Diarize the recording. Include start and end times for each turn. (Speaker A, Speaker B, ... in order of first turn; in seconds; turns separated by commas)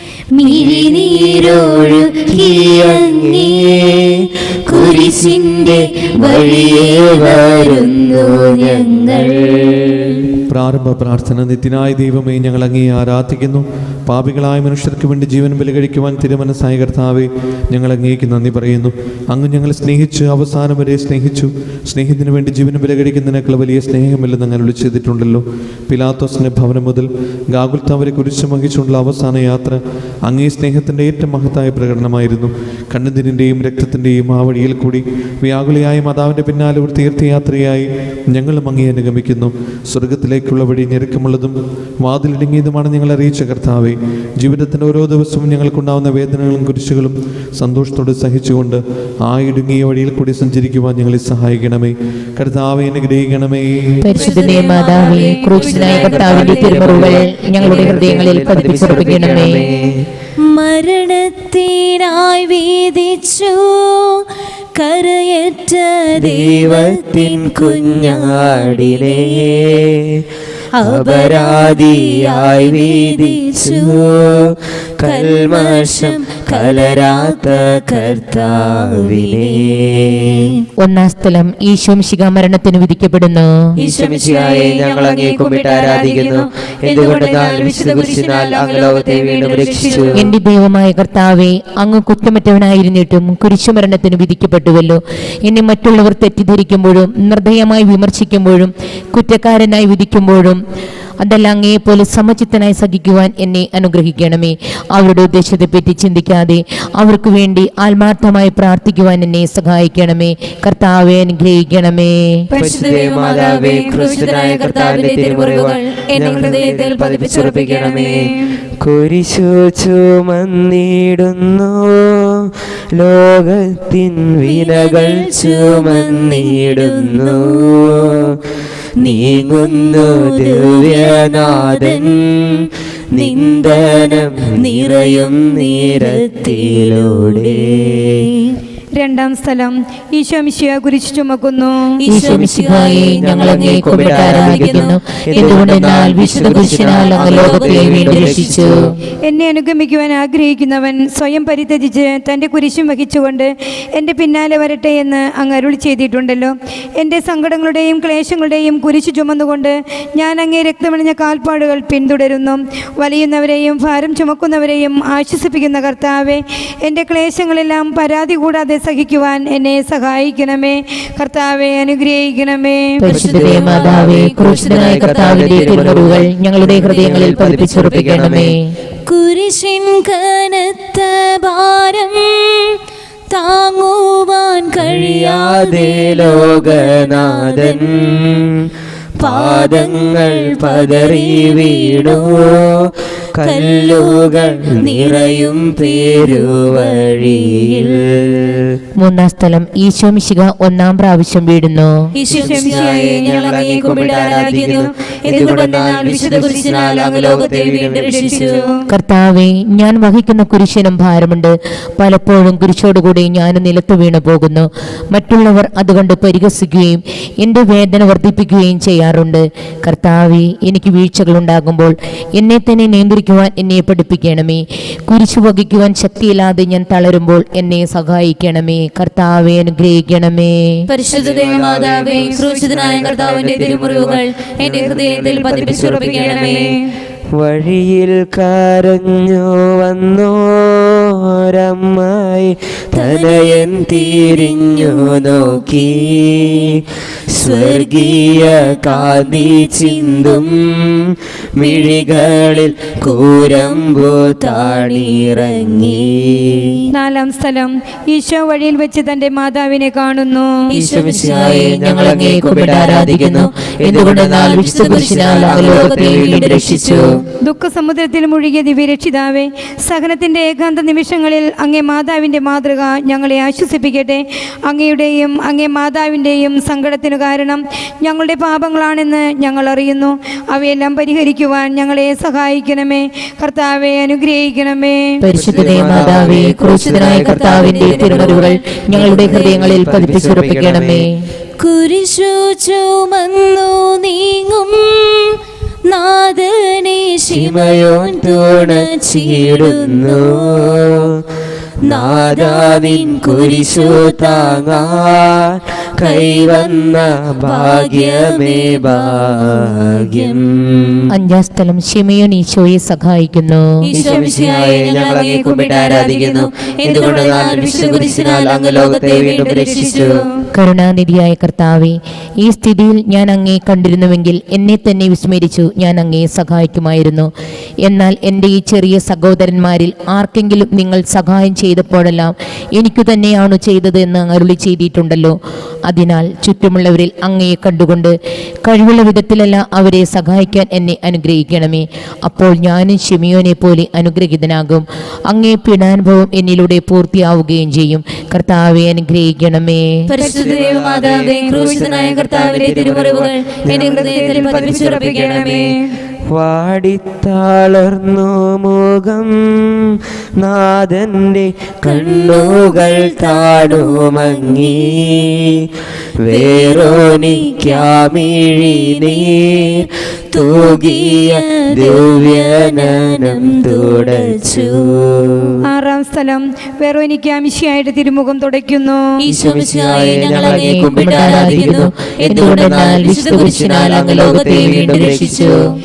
Speaker A: 0.3-4.1, Speaker B: 0.4-3.9, Speaker B: 4.7-9.7, Speaker A: 4.7-10.3, Speaker C: 10.5-54.1, Speaker D: 54.0-59.7, Speaker A: 54.1-56.8, Speaker E: 54.2-56.7, Speaker B: 55.7-60.0, Speaker E: 57.7-59.2, Speaker A: 60.4-69.4, Speaker B: 66.2-70.2, Speaker A: 70.7-74.1, Speaker B: 70.8-80.0, Speaker A: 75.0-80.5, Speaker D: 80.8-83.5, Speaker B: 83.8-90.3, Speaker A: 83.8-84.7, Speaker E: 84.3-90.3, Speaker A: 87.5-87.9, Speaker D: 90.1-100.6, Speaker D: 101.2-112.5, Speaker B: 112.5-118.2, Speaker A: 112.6-118.1, Speaker E: 113.2-114.1, Speaker E: 116.3-116.7, Speaker B: 118.8-128.2, Speaker A: 124.4-128.0, Speaker B: 129.0-132.2, Speaker A: 129.0-132.4, Speaker B: 133.1-138.2, Speaker A: 133.1-138.6, Speaker E: 139.0-141.8, Speaker A: 142.0-148.8, Speaker D: 142.1-148.8, Speaker B: 142.3-148.9, Speaker E: 149.2-173.0, Speaker D: 173.0-178.7, Speaker B: 173.1-178.5, Speaker A: 173.1-178.0, Speaker A: 179.1-182.8, Speaker A: 183.3-187.9, Speaker B: 184.8-188.7, Speaker A: 189.2-192.6, Speaker B: 189.2-197.9, Speaker A: 193.4-198.0, Speaker D: 199.0-202.1, Speaker A: 202.2-208.7, Speaker E: 202.3-208.8, Speaker B: 202.3-208.3, Speaker D: 208.9-230.8, Speaker A: 230.9-236.6, Speaker B: 231.2-236.7, Speaker E: 231.5-231.8, Speaker E: 232.3-233.0, Speaker E: 235.2-236.8, Speaker B: 237.3-246.7, Speaker A: 242.9-246.7, Speaker A: 247.3-250.5, Speaker B: 247.3-256.4, Speaker A: 251.6-256.7, Speaker E: 256.9-260.6, Speaker A: 260.7-267.2, Speaker B: 260.8-267.1, Speaker D: 261.7-267.0, Speaker E: 267.4-285.1, Speaker D: 285.2-291.1, Speaker B: 285.3-291.0, Speaker A: 286.0-288.6, Speaker A: 289.2-289.6, Speaker A: 291.6-300.8, Speaker B: 297.3-300.9, Speaker A: 301.8-305.0, Speaker B: 301.8-311.0, Speaker A: 306.0-310.4, Speaker D: 311.1-313.9, Speaker A: 313.9-320.2, Speaker B: 313.9-320.2, Speaker E: 315.3-315.8, Speaker E: 317.3-317.9, Speaker E: 319.3-320.0, Speaker D: 320.5-327.3, Speaker D: 327.8-335.3, Speaker D: 335.9-338.1, Speaker D: 338.6-349.8, Speaker A: 350.1-355.6, Speaker E: 350.2-351.7, Speaker B: 350.4-355.6, Speaker E: 353.9-355.5, Speaker B: 356.3-365.4, Speaker A: 361.8-365.4, Speaker B: 366.2-369.7, Speaker A: 366.3-374.9, Speaker B: 370.3-375.6, Speaker E: 375.7-379.1, Speaker A: 379.2-385.7, Speaker B: 379.3-385.6, Speaker D: 380.4-385.6